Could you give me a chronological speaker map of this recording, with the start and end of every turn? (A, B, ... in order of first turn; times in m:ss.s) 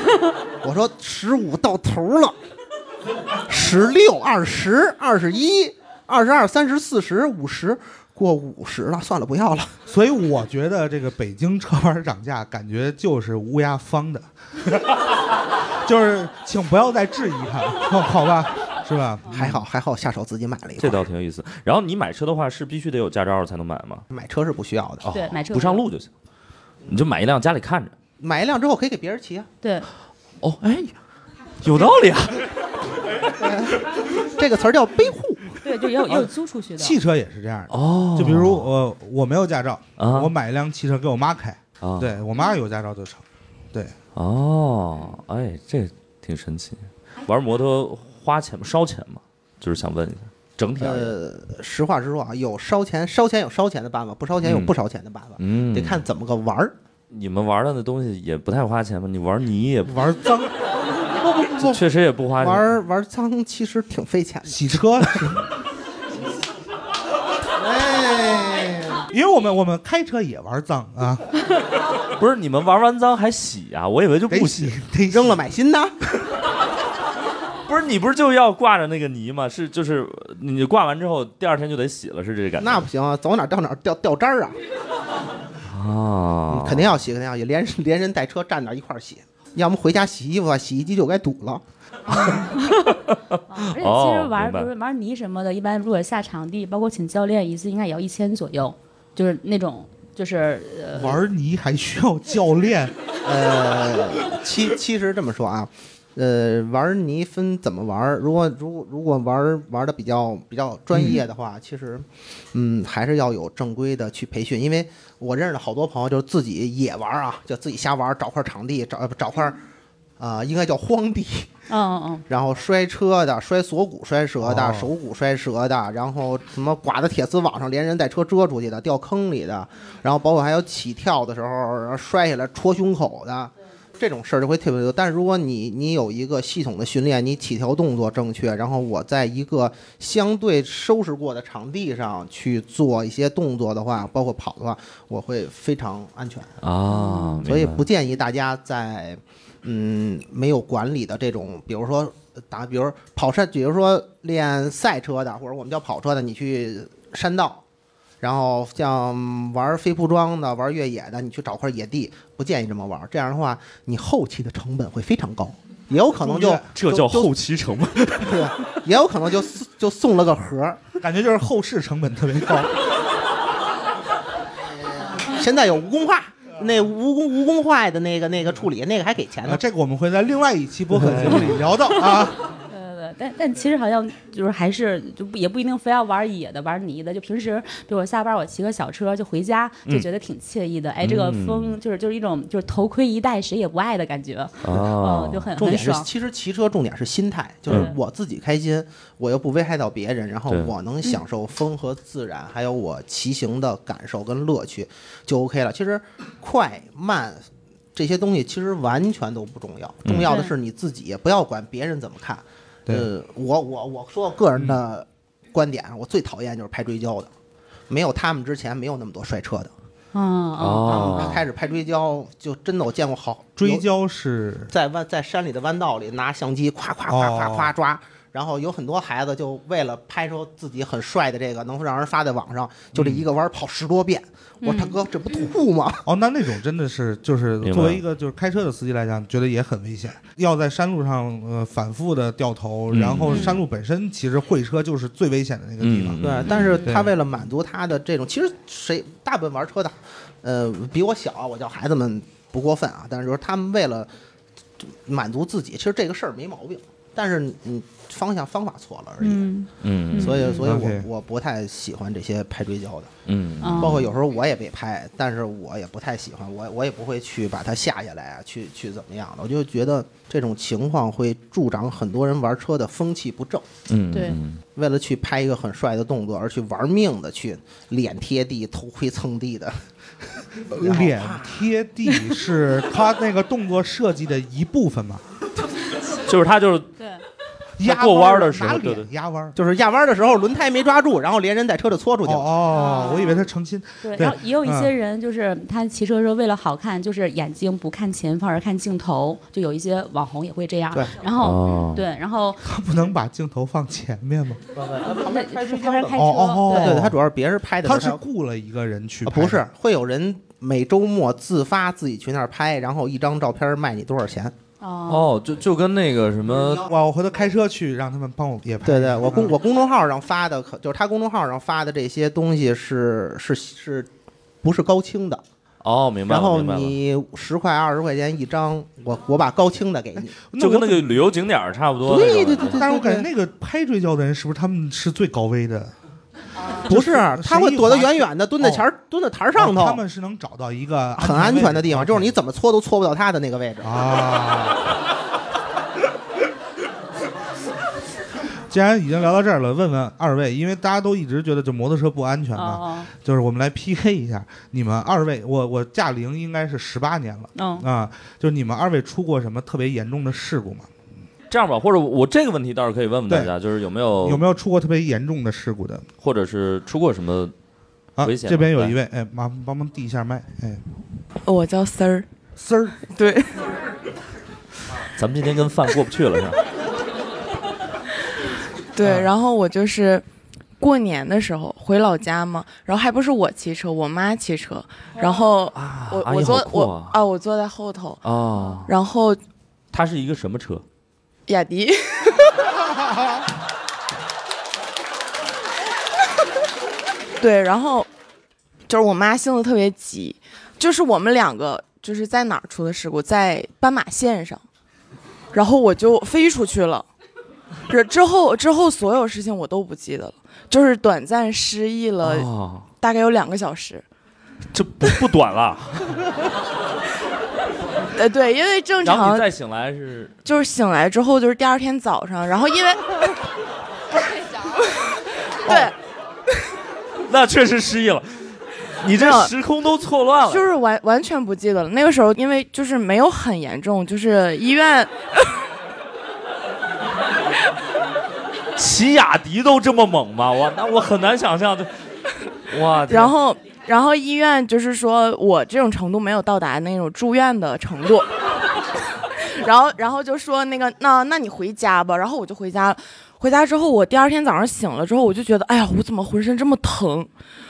0:00.6-0:02.4 A
0:03.5-0:09.8 A
0:09.9-0:15.1 B
0:15.8-0:19.4 B
0:19.3-0:21.0 A
0:19.3-0:19.6 C
0:20.8-0:24.0 C
0:24.1-0:25.0 A
0:25.0-0:26.1 C
0:25.0-0:25.8 D
0:26.9-0:27.9 C
0:28.2-0:29.5 A
0:29.6-0:29.9 D
0:30.4-0:30.9 C
0:31.6-0:32.5 C
0:33.4-0:35.5 A
0:35.6-0:36.9 D
0:36.1-0:43.9 B
0:37.7-0:38.7 C
0:40.0-0:40.3 C
0:41.8-0:42.1 C
0:44.1-0:51.1 C
0:50.8-0:56.7 A
0:54.4-0:54.7 C
0:55.4-0:56.0 C
0:57.1-1:00.1 C
0:59.8-1:00.5 B
1:01.4-1:01.8 A
1:01.6-1:02.7 C
1:02.4-1:05.4 A
1:04.4-1:05.5 B
1:07.6-1:09.0 A
1:09.1-1:11.3 B
1:12.2-1:14.7 C
1:14.3-1:15.4 B
1:15.1-1:15.9 A
1:17.6-1:22.9 C
1:22.6-1:24.6 A
1:25.7-1:26.9 C
1:26.5-1:32.3 A
1:32.1-1:41.2 D
1:32.9-1:34.7 C
1:40.9-1:42.9 B
1:43.2-1:59.6 A
1:50.9-1:51.2 B
2:00.2-2:01.5 A
2:01.7-2:02.2 D
2:02.3-2:26.5 A
2:04.4-2:04.9 B
2:26.6-2:27.8 C
2:26.9-2:27.4 D
2:27.4-2:37.6 A
2:38.2-2:47.3 A
2:46.2-2:46.7 B
2:46.7-2:48.5 C
2:48.2-2:50.8 A
2:51.0-2:52.7 B
2:54.6-2:59.6 A
2:59.4-3:02.4 B
3:00.9-3:01.6 C
3:02.2-3:16.1 D
3:11.0-3:11.8 C
3:14.6-3:15.5 C
3:15.6-3:37.3 A
3:17.7-3:18.0 D
3:20.5-3:20.7 C
3:30.0-3:30.3 C
3:30.2-3:30.5 D
3:37.9-3:39.7 A
3:40.1-3:41.4 D
3:40.6-3:41.4 C
3:40.8-3:43.8 A
3:43.6-3:44.7 B
3:44.7-3:56.0 A
3:47.1-3:47.7 B
3:53.0-3:53.2 B
3:54.6-3:54.9 D
3:56.0-4:07.1 B
3:57.6-3:58.0 C
4:02.9-4:03.5 C
4:03.3-4:03.6 D
4:05.8-4:06.8 C
4:06.2-4:14.1 A
4:14.8-4:19.5 A
4:19.2-4:20.6 D
4:19.8-4:20.5 C
4:20.1-4:23.1 A
4:20.6-4:21.1 B
4:23.2-4:24.0 C
4:23.6-4:24.1 D
4:23.8-4:33.7 A
4:33.9-4:34.6 C
4:34.8-4:39.8 A
4:40.5-4:41.5 A
4:40.7-4:45.2 B
4:46.2-4:46.9 C
4:47.8-4:49.6 B
4:47.8-4:49.1 C
4:49.5-4:52.5 A
4:52.2-4:54.9 B
4:52.7-4:53.4 D
4:54.0-5:02.6 D
5:01.4-5:02.0 C
5:02.6-5:04.6 B
5:04.7-5:08.2 A
5:05.2-5:07.0 D
5:06.1-5:07.2 B
5:07.8-5:09.7 B
5:09.2-5:14.5 A
5:14.8-5:15.3 D
5:15.1-5:16.8 C
5:16.5-5:16.8 A
5:16.8-5:19.6 B
5:18.8-5:24.1 A
5:24.6-5:25.4 A
5:25.8-5:27.0 C
5:26.3-5:30.4 A
5:30.2-5:31.2 B
5:30.6-5:32.8 C
5:32.0-5:33.3 A
5:32.7-5:35.9 B
5:36.8-5:40.0 A
5:36.8-5:38.9 B
5:39.6-5:42.3 B
5:41.2-5:44.1 A
5:43.8-5:44.8 B
5:48.7-6:00.9 B
5:52.5-5:53.1 D
5:57.6-5:57.8 D
6:01.5-6:04.4 C
6:04.2-6:06.0 B
6:06.2-6:07.5 C
6:08.2-6:10.8 B
6:08.2-6:09.0 C
6:11.4-6:12.3 E
6:12.6-6:13.0 B
6:13.1-6:13.6 E
6:15.1-6:16.6 C
6:18.9-6:20.2 E
6:20.8-6:28.2 E
6:25.7-6:27.2 C
6:28.2-6:28.9 C
6:28.8-6:29.4 E
6:29.9-6:30.8 C
6:31.5-6:32.7 E
6:37.4-6:38.1 E
6:38.9-6:44.6 E
6:45.5-6:47.1 E
6:47.9-6:52.5 E
6:52.2-6:52.9 C
6:53.0-6:54.0 E
6:54.7-6:56.2 C
6:58.1-6:59.5 E
6:59.0-7:00.4 C
7:00.4-7:03.1 E
7:04.8-7:05.9 E
7:05.6-7:05.9 C
7:07.3-7:10.6 C
7:09.1-7:09.5 E
7:10.4-7:15.5 E
7:18.8-7:21.9 C
7:22.7-7:23.3 C
7:23.1-7:28.3 E
7:29.4-7:37.3 E